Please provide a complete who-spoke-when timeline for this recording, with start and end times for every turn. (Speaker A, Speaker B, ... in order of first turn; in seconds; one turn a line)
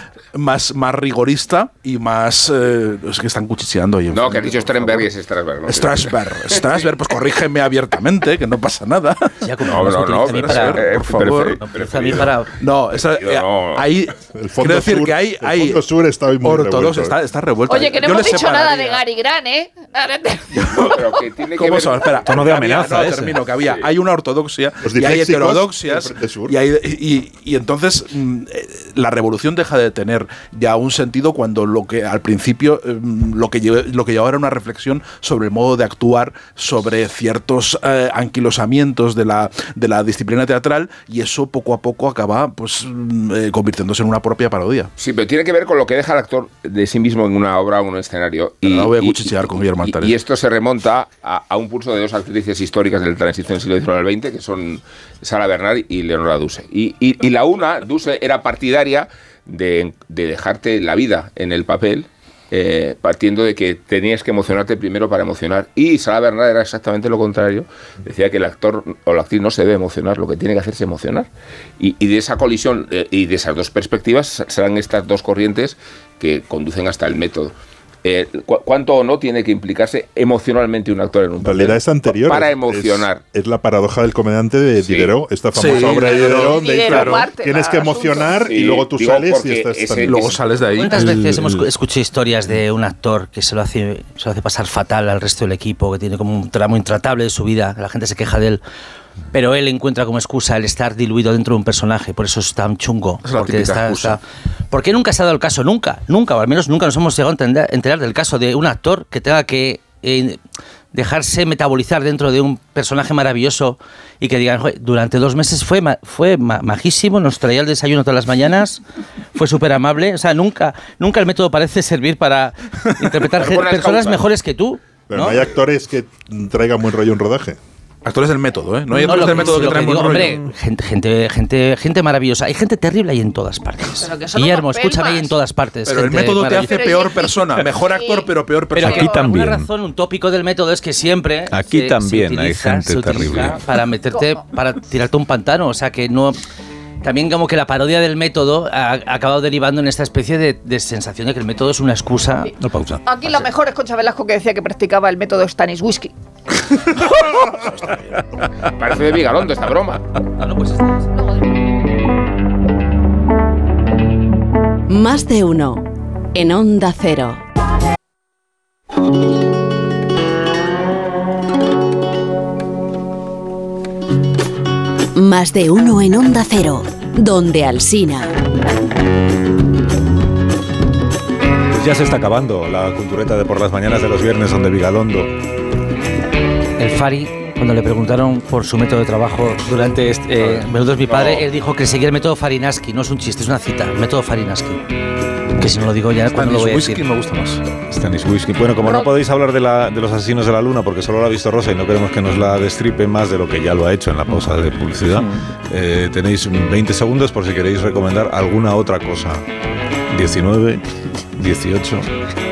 Speaker A: 0.3-5.1
Speaker B: 4.1-6.7
Speaker A: 5.6-15.8
Speaker C: 9.4-12.5
Speaker B: 9.6-12.4
Speaker B: 13.0-13.9
Speaker D: 14.3-17.2
Speaker A: 16.4-19.0
Speaker E: 17.7-21.0
Speaker A: 20.5-44.9
Speaker B: 20.7-22.4
Speaker F: 22.2-23.5
Speaker D: 24.8-26.6
Speaker B: 45.0-83.2
Speaker A: 48.6-50.2
Speaker D: 81.4-90.4
Speaker B: 84.8-85.1
Speaker A: 85.5-87.3
Speaker E: 85.8-88.3
Speaker B: 88.4-90.4
Speaker A: 90.0-91.0
Speaker C: 90.8-98.6
Speaker F: 90.9-91.7
Speaker C: 99.3-104.2
Speaker A: 103.2-104.2
Speaker C: 104.7-110.4
Speaker C: 110.9-118.8
Speaker C: 119.3-125.4
Speaker B: 123.4-124.3
Speaker D: 125.1-127.6
Speaker A: 128.0-130.5
Speaker C: 129.0-136.7
Speaker E: 134.0-135.3
Speaker A: 135.8-139.1
Speaker E: 136.4-138.3
Speaker C: 138.7-146.4
Speaker E: 138.8-139.2
Speaker F: 138.8-139.7
Speaker F: 141.5-143.6
Speaker E: 144.1-144.4
Speaker C: 147.0-152.5
Speaker F: 152.6-153.0
Speaker E: 153.1-156.1
Speaker B: 158.8-160.0
Speaker C: 160.4-161.0
Speaker E: 161.2-161.4
Speaker G: 164.9-167.4
Speaker G: 175.1-178.3
Speaker F: 181.7-185.3
Speaker C: 186.8-194.8
Speaker B: 190.4-191.4
Speaker C: 195.6-197.0
Speaker A: 196.3-197.6
Speaker F: 197.9-209.4
Speaker A: 205.1-205.4
Speaker F: 210.1-212.1